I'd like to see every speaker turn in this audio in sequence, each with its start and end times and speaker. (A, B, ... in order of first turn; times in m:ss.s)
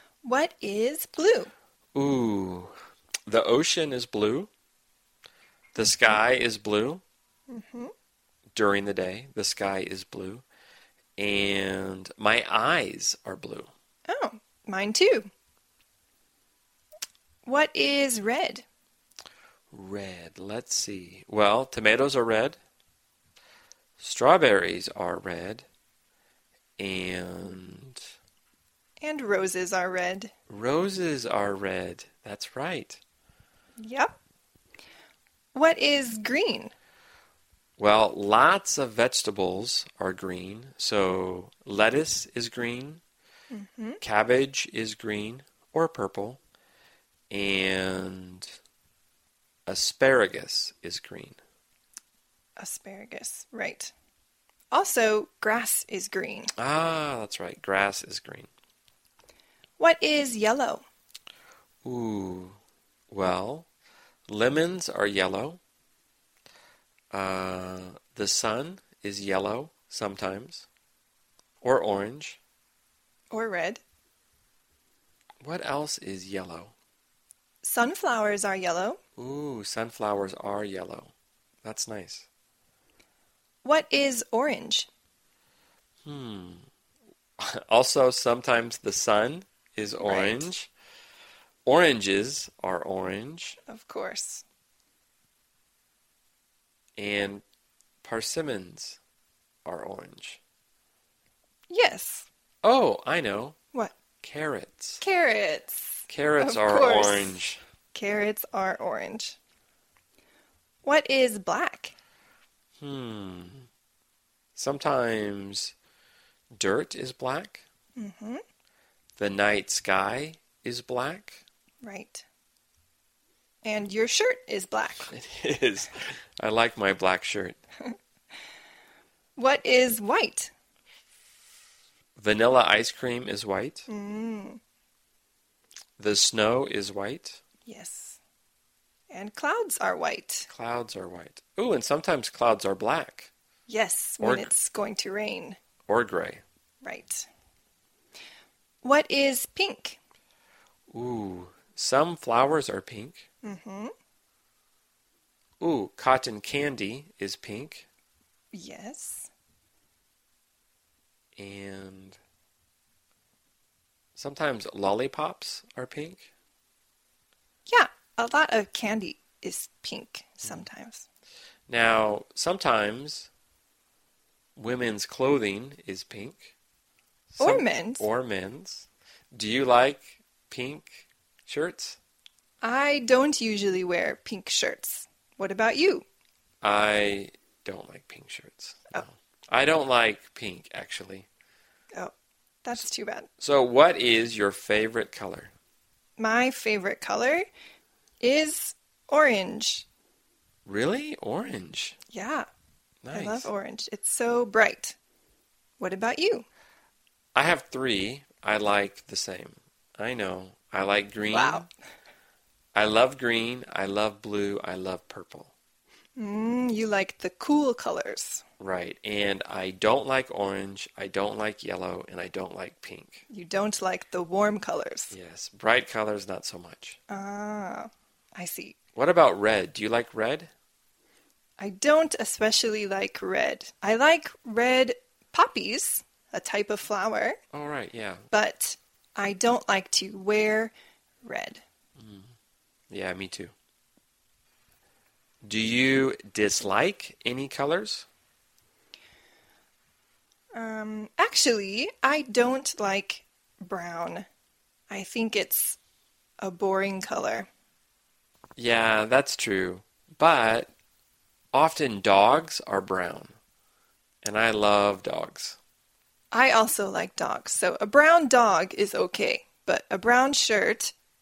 0:00.2-0:01.5 A
0:01.9-0:02.7 B
0:03.3-0:04.5 B
0:05.7-0:07.0 B
0:07.5-0:07.9 A
0:08.5-0:10.4 B
0:11.2-0:13.7 B
0:14.1-0:15.3 A
0:17.4-0:18.6 A
0:19.7-0:22.6 B
0:24.0-0:25.6 B
0:26.8-0:28.0 B
0:29.0-0:30.3 A
0:30.5-0:33.0 B
0:33.8-0:34.1 A
0:35.5-0:36.7 A
0:37.8-0:43.0 B
0:43.5-0:44.0 A
0:44.0-0:46.4 B
0:47.3-0:48.4 B
0:49.7-0:51.4 B
0:52.6-0:53.9 A
0:54.7-0:56.5 A
0:56.6-0:58.5 B
0:59.8-1:00.8 A
1:01.8-1:02.6 B
1:03.1-1:03.7 B
1:04.3-1:05.6 B
1:07.1-1:10.7 B
1:11.6-1:12.4 B
1:13.3-1:13.8 A
1:15.4-1:16.7 B
1:17.6-1:19.0 A
1:19.2-1:21.1 B
1:21.6-1:22.3 B
1:23.6-1:24.9 A
1:26.0-1:26.6 B
1:27.4-1:30.7 B
1:30.0-1:30.5 A
1:31.6-1:33.6 B
1:33.6-1:34.4 A
1:37.0-1:37.4 B
1:38.0-1:39.0 B
1:39.6-1:40.4 B
1:41.7-1:42.3 A
1:42.6-1:43.6 B
1:44.2-1:45.0 B
1:45.0-1:49.4 A
1:46.1-1:47.6 B
1:50.8-1:51.9 A
1:52.8-1:53.7 B
1:54.6-1:55.7 B
1:56.6-1:57.6 B
1:58.0-1:58.4 A
1:59.2-2:01.4 B
2:01.8-2:02.2 A
2:03.6-2:05.1 A
2:05.1-2:07.6 B
2:09.4-2:10.5 A
2:12.2-2:13.9 B
2:13.9-2:14.6 A
2:16.0-2:17.4 B
2:17.6-2:18.2 A
2:19.1-2:20.5 A
2:20.5-2:23.3 B
2:23.7-2:25.6 A
2:24.2-2:24.5 B
2:25.9-2:26.4 B
2:26.8-2:27.3 A
2:28.8-2:30.0 A
2:30.9-2:33.3 B
2:33.4-2:33.9 A
2:35.6-2:37.9 B
2:38.5-2:39.3 A
2:41.4-2:42.2 B
2:44.1-2:46.3 B
2:47.7-2:51.0 A
2:51.7-2:53.3 B
2:54.6-2:56.5 B
2:57.3-3:02.0 B
2:57.4-2:58.0 A
3:02.6-3:06.0 A
3:06.6-3:11.3 B
3:12.6-3:13.3 A
3:13.4-3:15.5 B
3:16.2-3:17.5 A
3:18.2-3:19.8 A
3:20.6-3:22.0 B
3:22.1-3:22.5 A
3:23.0-3:23.5 B
3:23.1-3:25.0 A
3:25.8-3:26.5 A
3:27.3-3:31.7 B
3:31.3-3:31.7 A
3:32.7-3:35.5 B
3:36.2-3:38.4 A
3:38.6-3:43.2 B
3:43.3-3:45.1 A
3:45.1-3:47.0 B
3:47.1-3:48.8 A
3:48.9-3:50.5 B
3:51.6-3:57.4 A
3:57.5-3:58.3 B
3:58.3-4:00.7 A
4:01.2-4:01.6 A
4:02.0-4:02.3 B
4:02.9-4:03.5 B
4:05.4-4:08.1 B
4:10.5-4:14.2 A
4:14.9-4:15.8 A
4:16.4-4:17.5 A
4:18.6-4:20.7 B
4:21.5-4:23.3 B
4:24.2-4:25.6 B
4:26.3-4:30.9 A